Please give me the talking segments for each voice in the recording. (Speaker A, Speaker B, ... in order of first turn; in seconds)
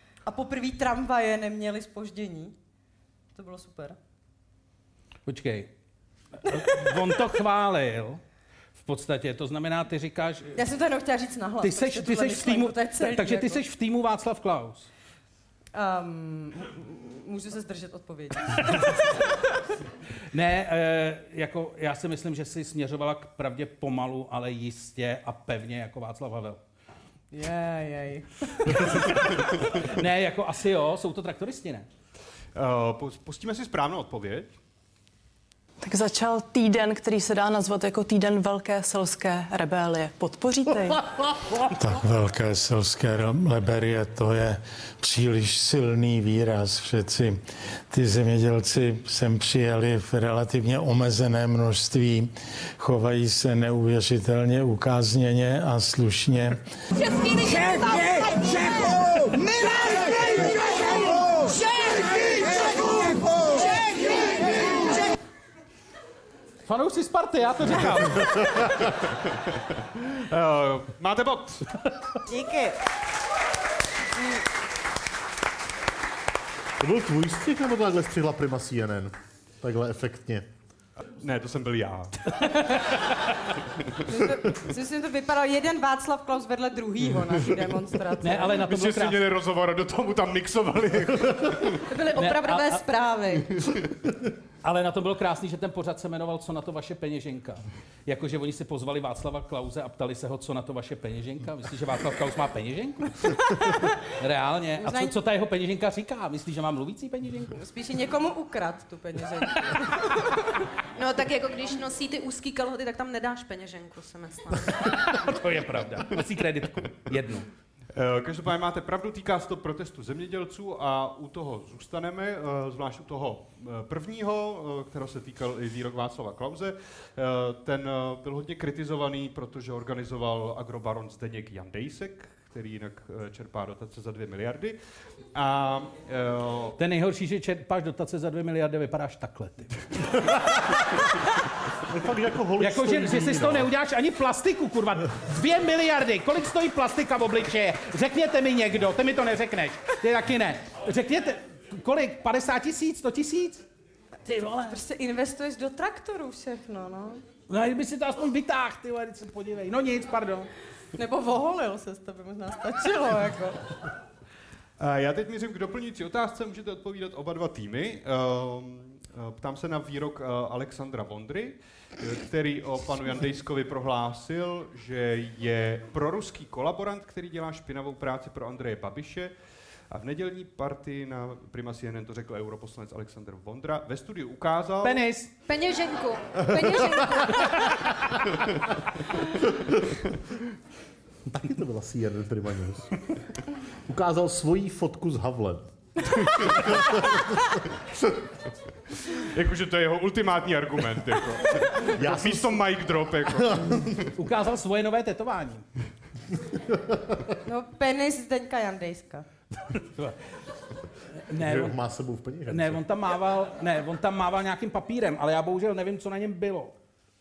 Speaker A: 0.2-2.5, 3.4-4.0, 10.6-13.6, 15.7-19.3, 27.3-29.2, 72.3-72.7, 84.0-88.6, 104.8-105.1, 107.5-110.4, 154.7-157.2, 160.9-163.6, 207.4-209.3
Speaker B: 5.3-5.7, 6.4-8.2, 8.8-10.6, 11.6-14.9, 20.3-26.6, 29.8-31.9, 66.7-68.4, 88.2-89.3, 92.2-92.8, 94.6-103.7, 104.2-107.5, 114.9-117.5, 136.8-139.8, 142.6-153.6, 154.3-154.8, 157.5-160.5, 184.8-185.3, 204.2-205.7, 211.3-211.8, 212.5-216.8
Speaker C: 32.5-34.5, 70.1-71.7, 81.2-82.3, 88.7-91.8, 117.9-134.8, 135.3-136.8, 164.8-179.3, 179.9-185.0, 199.1-204.1
Speaker D: 35.8-41.0
Speaker E: 41.8-56.6
Speaker F: 76.8-80.5, 141.9-143.7, 186.5-187.1, 191.3-192.9, 193.9-195.7, 196.3-197.3, 201.9-204.0, 206.6-207.2, 211.4-212.8
Speaker G: 91.9-93.6, 111.0-115.2, 185.5-187.7